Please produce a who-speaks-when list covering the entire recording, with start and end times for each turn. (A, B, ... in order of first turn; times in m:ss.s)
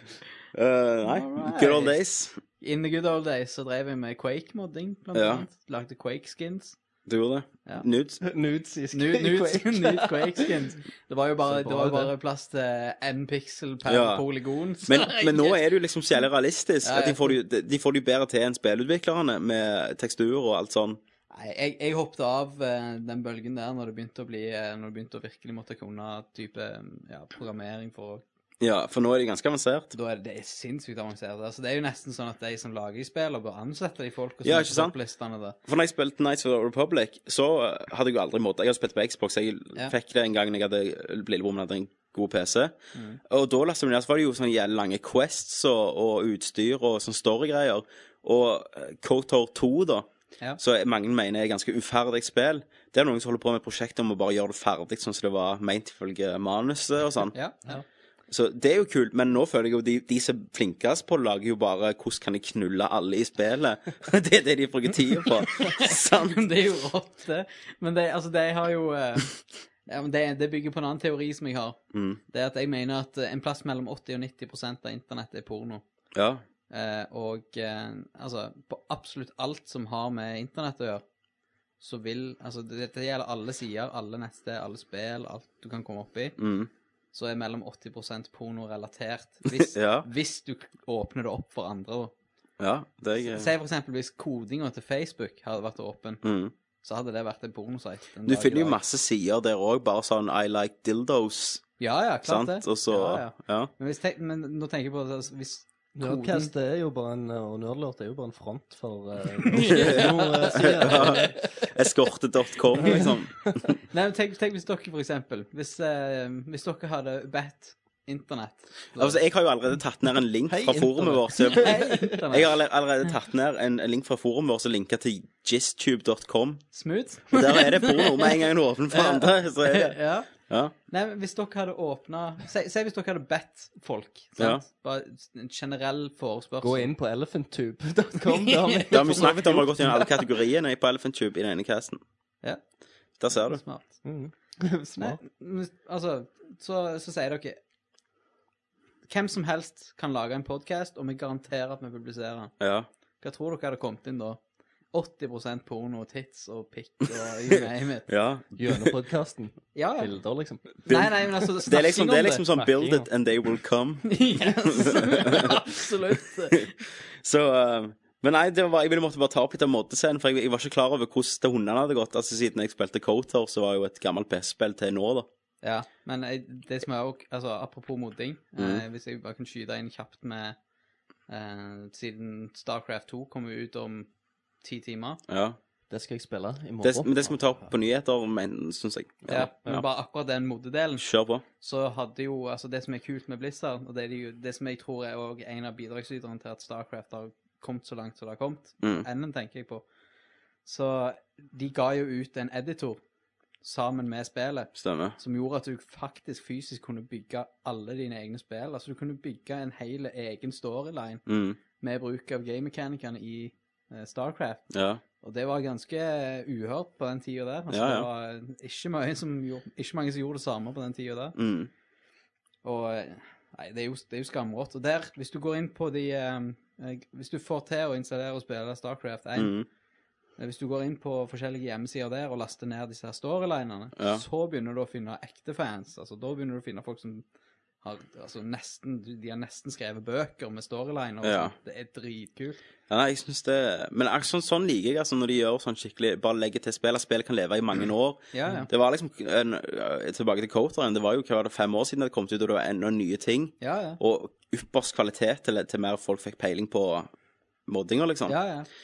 0:00.5-0:02.4 A
0:01.1-0:02.0 B
0:02.6-0:06.8 B
0:05.1-0:05.5 A
0:07.1-0:08.2 A
0:08.2-0:10.5 C
0:08.9-0:15.6 B
0:11.5-0:12.1 C
0:13.9-0:14.2 A
0:14.9-0:21.0 A
0:16.8-0:17.4 B
0:21.3-0:28.2 B
0:28.6-0:29.9 A
0:29.9-0:35.6 B
0:34.4-0:35.0 A
0:35.6-0:42.7 A
0:43.3-0:50.1 A
0:50.6-0:57.3 A
0:57.3-0:57.8 B
0:58.3-1:06.4 A
1:05.6-1:15.8 B
1:11.9-1:12.2 A
1:16.1-1:16.4 A
1:16.7-1:21.0 B
1:21.8-1:26.4 B
1:26.4-1:26.7 A
1:27.1-1:32.1 B
1:29.5-1:30.1 A
1:32.6-1:33.5 A
1:33.2-1:36.2 B
1:36.2-1:36.5 A
1:36.8-1:38.8 B
1:38.3-1:41.7 A
1:41.8-1:46.5 B
1:42.2-1:43.7 A
1:46.0-1:51.5 C
1:49.5-1:51.3 B
1:50.5-1:53.8 A
1:52.8-1:53.6 C
1:53.9-1:59.2 B
1:59.0-2:06.6 A
2:00.5-2:02.0 C
2:01.6-2:02.5 B
2:06.7-2:08.4 B
2:07.3-2:10.7 A
2:08.9-2:10.3 B
2:10.9-2:16.9 B
2:14.4-2:14.6 A
2:16.6-2:20.1 C
2:18.3-2:19.1 B
2:18.9-2:22.0 A
2:23.2-2:23.6 A
2:23.3-2:23.9 B
2:24.0-2:25.2 C
2:25.0-2:27.6 B
2:29.1-2:32.5 B
2:32.6-2:32.9 A
2:33.2-2:34.4 B
2:34.9-2:38.1 B
2:37.5-2:38.9 A
2:38.6-2:40.8 C
2:39.7-2:40.1 B
2:40.7-2:42.4 B
2:40.9-2:45.6 A
2:42.6-2:43.1 C
2:44.1-2:46.8 B
2:47.2-2:55.3 A
2:55.6-3:00.6 B
2:58.6-2:58.8 A
3:01.3-3:04.1 B
3:04.6-3:05.2 B
3:05.3-3:05.6 A
3:05.9-3:07.4 C
3:06.8-3:09.8 A
3:09.3-3:11.0 B
3:11.0-3:11.4 A
3:11.6-3:19.8 B
3:18.8-3:19.1 A
3:20.6-3:23.0 B
3:23.6-3:31.2 B
3:24.8-3:25.2 A
3:31.3-3:31.6 A
3:31.8-3:34.6 B
3:34.7-3:35.0 A
3:35.2-3:41.3 B
3:37.7-3:38.1 A
3:41.4-3:41.7 A
3:42.6-3:49.6 B
3:49.4-3:49.7 A
3:50.4-3:57.2 B
3:54.0-3:54.2 A
3:57.8-4:02.6 B
4:01.2-4:01.6 A
4:02.9-4:17.1 A
4:08.3-4:08.7 B
4:13.6-4:14.0 B
4:17.7-4:18.4 A
4:18.3-4:18.7 B